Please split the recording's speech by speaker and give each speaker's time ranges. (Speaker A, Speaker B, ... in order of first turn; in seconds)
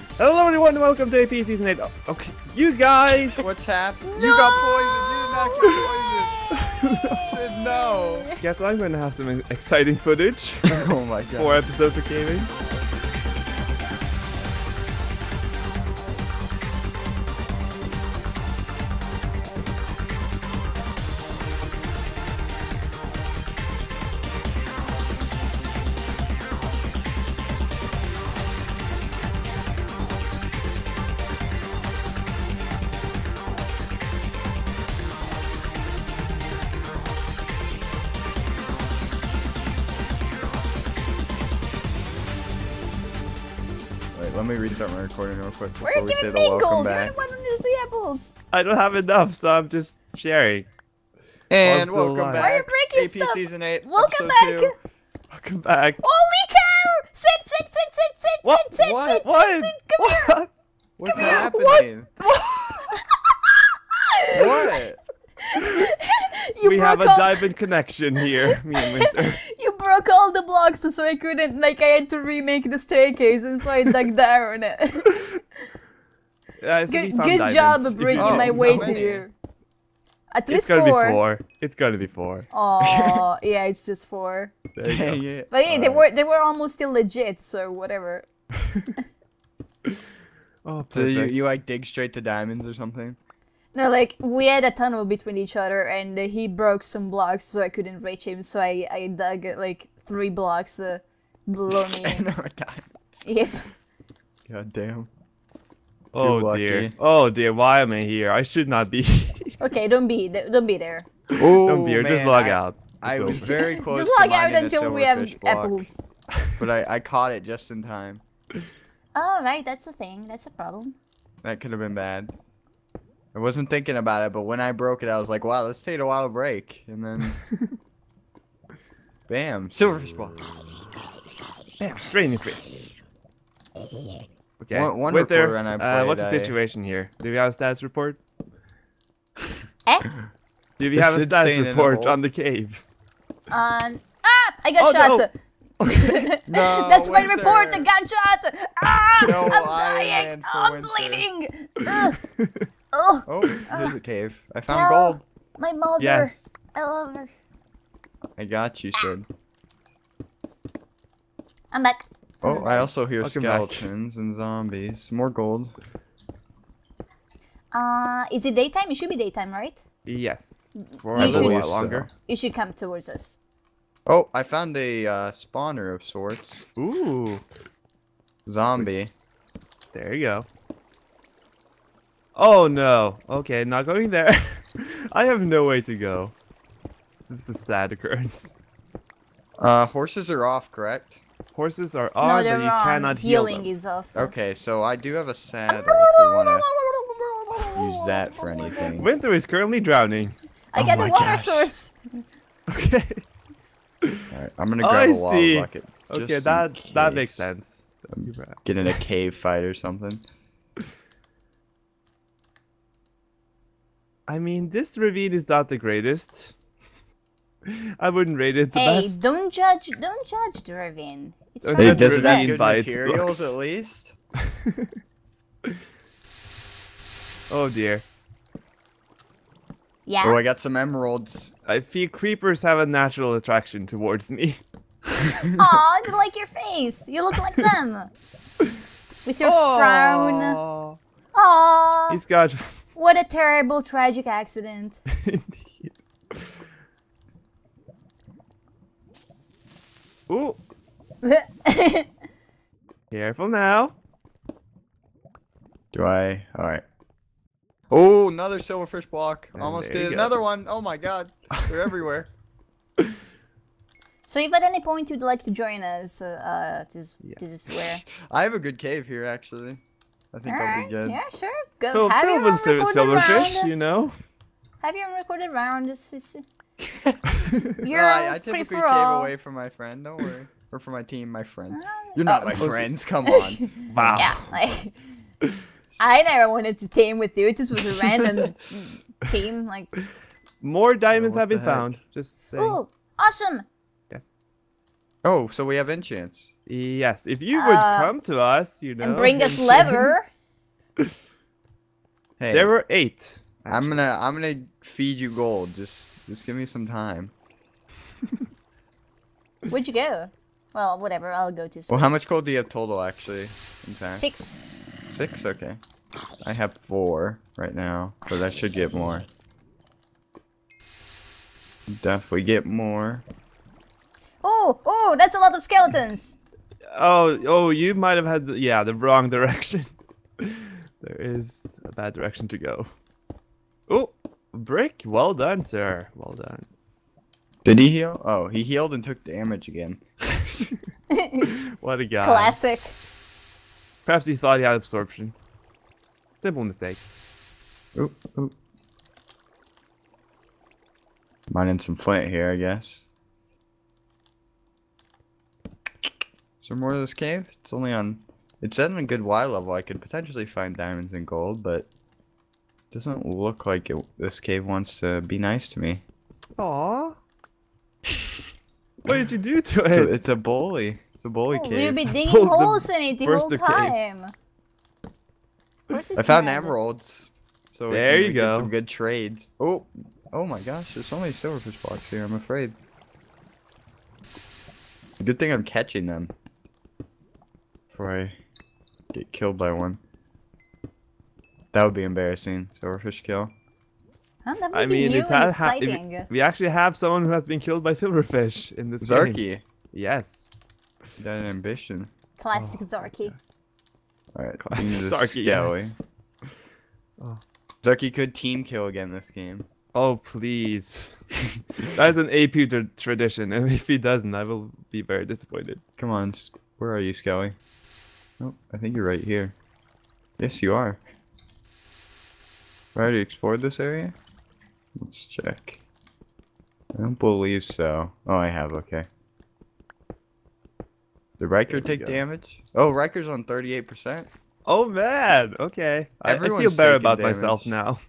Speaker A: 0.2-3.4, 6.5-7.2, 8.4-12.5, 48.5-50.7, 51.6-52.5, 55.3-56.0, 58.4-60.5, 61.1-62.9, 66.6-69.4, 76.6-79.0, 80.5-82.5, 84.7-85.2, 90.6-91.3, 106.1-109.6, 111.4-113.5, 131.8-132.9, 134.6-138.2, 140.8-142.8, 144.8-145.2, 145.8-146.3, 149.2-149.4, 151.9-152.6, 156.0-156.5, 163.2-163.9, 170.1-172.1, 176.8-177.4, 179.9-180.5, 182.3-186.3, 187.3-188.5, 191.5-193.7, 198.9-200.3, 202.7-203.2, 204.8-208.9, 214.3-216.5, 217.7-219.2, 221.6-223.5, 227.5-228.0, 231.7-234.6, 239.4-241.0, 242.1-242.8, 245.2-245.9, 250.3-250.6, 253.1-253.9, 259.5-260.4, 271.9-274.1, 282.6-282.9, 283.9-284.5, 290.6-292.8, 296.7-300.1, 302.5-304.1, 326.9-332.9, 333.9-336.7, 341.5-342.6, 344.1-345.4, 346.4-347.0, 366.6-367.2, 369.1-370.1, 372.0-374.1, 377.9-378.7, 394.7-399.4, 399.9-400.5, 402.5-403.4, 404.6-406.0, 409.9-411.2, 411.8-415.8, 431.7-432.2, 434.7-438.0
Speaker B: 3.4-6.3, 7.1-8.3, 10.7-11.6, 44.1-47.1, 51.5-54.7, 58.8-59.2, 61.0-62.1, 64.3-65.0, 78.2-79.2, 82.8-83.2, 84.8-86.0, 90.9-93.2, 101.7-103.2, 104.5-105.1, 106.1-106.9, 111.4-115.9, 116.6-118.2, 121.4-122.3, 123.3-127.4, 129.3-130.4, 134.7-136.6, 140.9-142.2, 146.5-147.9, 149.2-151.2, 153.3-155.2, 158.4-159.3, 162.4-165.7, 171.1-172.1, 174.1-176.7, 178.4-179.1, 189.6-191.2, 194.1-196.7, 197.8-199.1, 200.8-201.7, 204.3-207.5, 208.1-210.2, 221.8-224.1, 230.2-231.5, 255.9-256.8, 257.9-262.3, 268.1-271.2, 276.8-277.2, 277.9-284.3, 291.1-291.9, 295.2-296.5, 302.4-302.7, 303.7-307.3, 311.9-314.2, 315.1-315.8, 316.4-319.2, 321.9-323.2, 337.6-340.5, 347.9-348.5, 351.5-353.1, 356.6-361.9, 362.9-366.0, 369.9-372.0, 376.2-382.8, 385.2-386.3, 387.9-388.4, 389.1-390.0, 391.7-393.5, 399.0-399.6, 401.2-402.1, 404.4-406.0, 407.8-409.7, 416.0-417.6, 418.4-419.6, 420.4-421.0, 422.9-424.1, 425.0-425.8, 426.9-429.1, 431.4-434.3, 436.2-437.7
Speaker C: 4.0-8.4, 45.8-48.3, 52.4-54.8, 56.0-60.3, 62.9-64.8, 65.5-67.5, 68.2-75.1, 76.9-79.3, 80.3-81.2, 82.5-84.5, 85.5-88.3, 93.7-102.2, 103.2-103.7, 109.6-111.1, 113.3-116.0, 119.1-121.0, 139.8-140.1, 143.5-152.2, 152.9-153.9, 154.7-157.3, 161.7-162.9, 167.7-169.8, 170.8-171.6, 172.3-173.4, 192.2-194.3, 195.7-198.9, 200.7-202.0, 218.7-222.6, 230.1-230.4, 235.4-238.1, 239.2-240.6, 241.3-242.2, 242.9-245.0, 251.2-252.1, 264.2-268.0, 270.5-273.7, 274.8-276.4, 277.8-279.3, 281.7-282.7, 283.2-285.0, 286.0-289.9, 292.5-293.7, 297.5-298.1, 299.0-300.3, 309.7-312.1, 314.1-314.6, 324.4-326.4, 341.1-341.6, 342.2-343.0, 371.5-374.3, 375.9-376.7, 394.4-396.3, 402.4-403.4